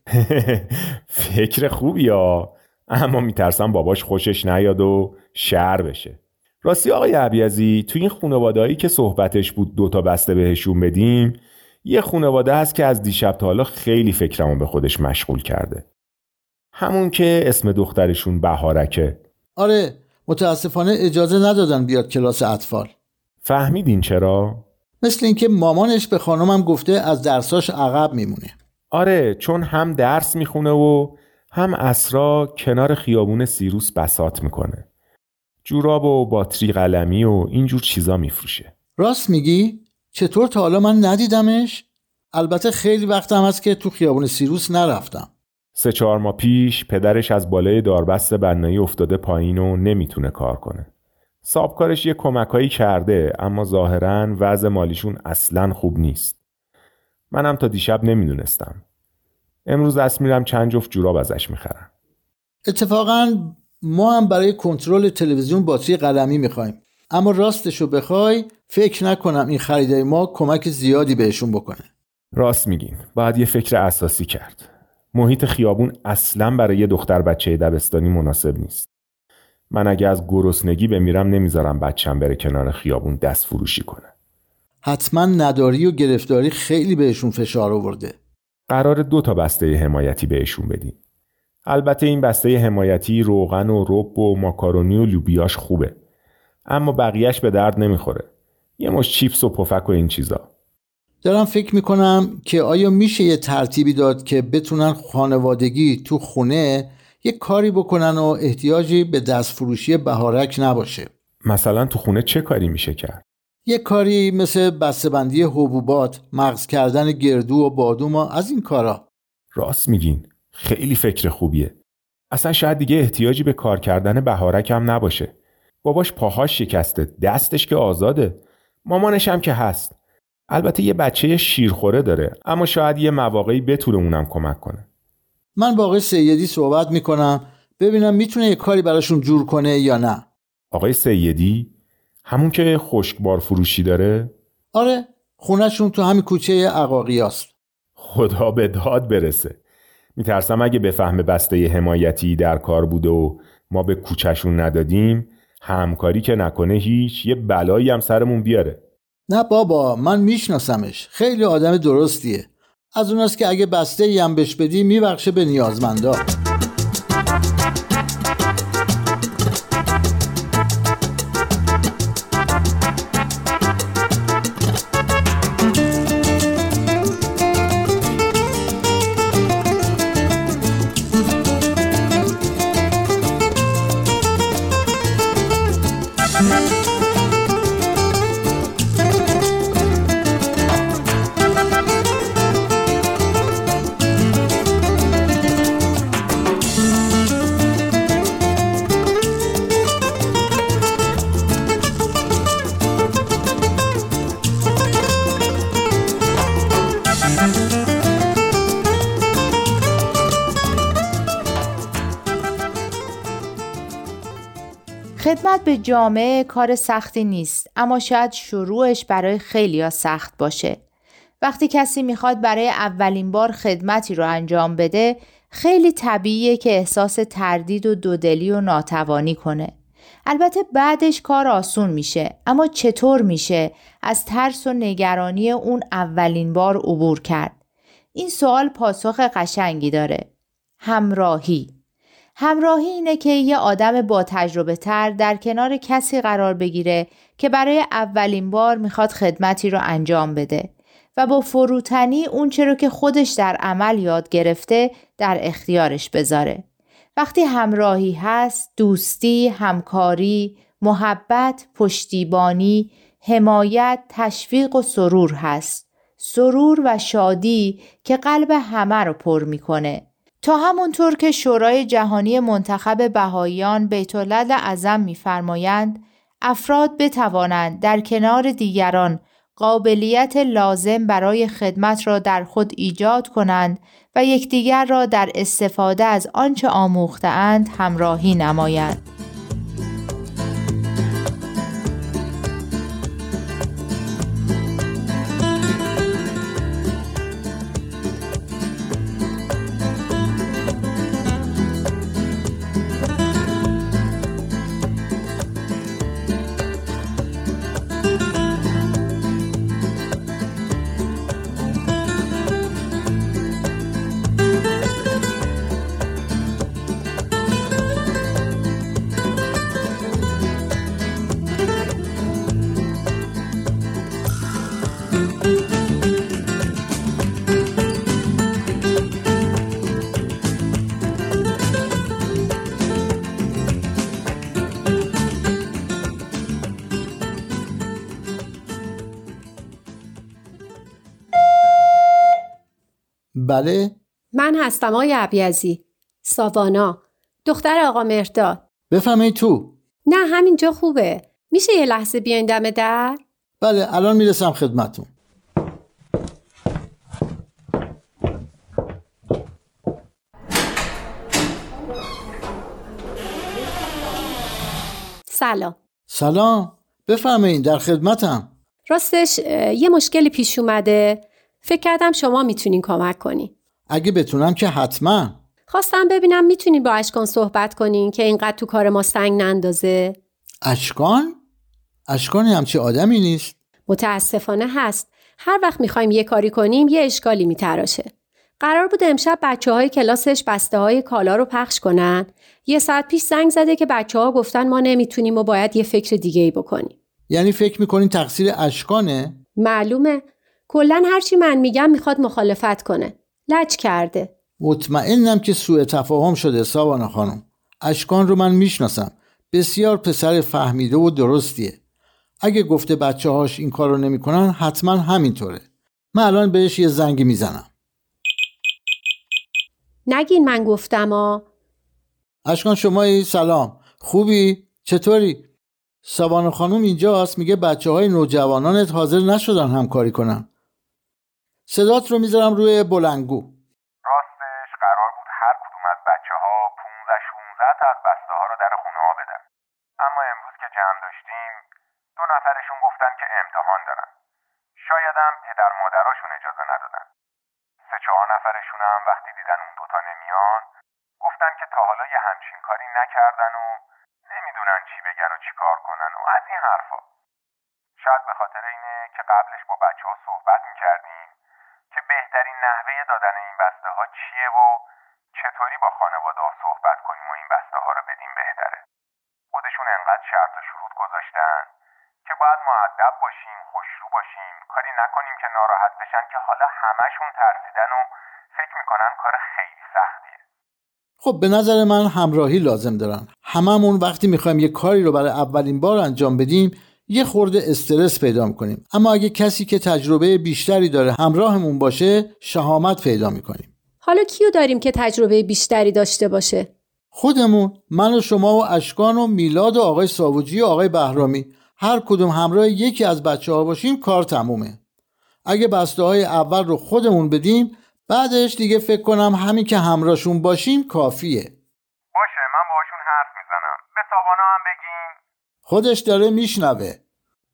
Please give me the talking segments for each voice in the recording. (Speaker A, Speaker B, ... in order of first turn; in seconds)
Speaker A: 0.2-15.8, 16.8-19.2, 23.4-24.6, 28.9-34.9, 35.6-38.7, 45.8-50.9, 51.4-56.4, 57.3-58.8, 59.7-61.9, 72.4-78.9, 79.7-84.1, 88.7-91.0, 91.7-96.0, 96.7-98.3, 98.8-100.5, 111.4-113.2, 119.5-121.8, 122.3-129.9, 130.5-134.9, 140.7-141.7, 142.2-144.3, 148.0-149.6, 150.2-158.8, 434.0-439.4, 440.0-441.6, 442.2-444.1, 444.8-447.1, 447.9-450.7, 451.2-457.0, 458.0-461.3, 461.9-468.8, 469.5-471.7, 472.2-480.4, 512.1-515.2
Speaker B: 19.6-22.9, 25.0-28.5, 39.0-45.3, 62.7-71.8, 84.8-88.2, 101.2-111.1, 113.7-119.1, 135.6-140.3, 144.7-147.5, 159.3-166.2, 343.4-343.9, 348.9-349.8, 353.6-355.1, 366.1-368.5, 373.9-375.4, 380.7-381.4, 382.1-383.6, 397.3-399.4, 404.6-411.8, 412.4-415.6, 416.1-417.7, 422.5-425.5, 426.1-430.5, 431.7-433.6, 481.2-493.7, 497.1-504.8, 505.5-511.5, 515.7-517.0
Speaker C: 215.2-220.8, 221.4-229.7, 230.3-237.5, 238.2-240.3, 240.8-241.8, 242.4-256.6, 257.2-289.0
Speaker D: 344.3-348.6, 350.1-353.2, 365.3-365.8, 368.9-373.5, 375.7-380.2, 383.9-388.1, 388.6-396.9, 399.6-404.3, 420.1-421.5, 494.0-496.7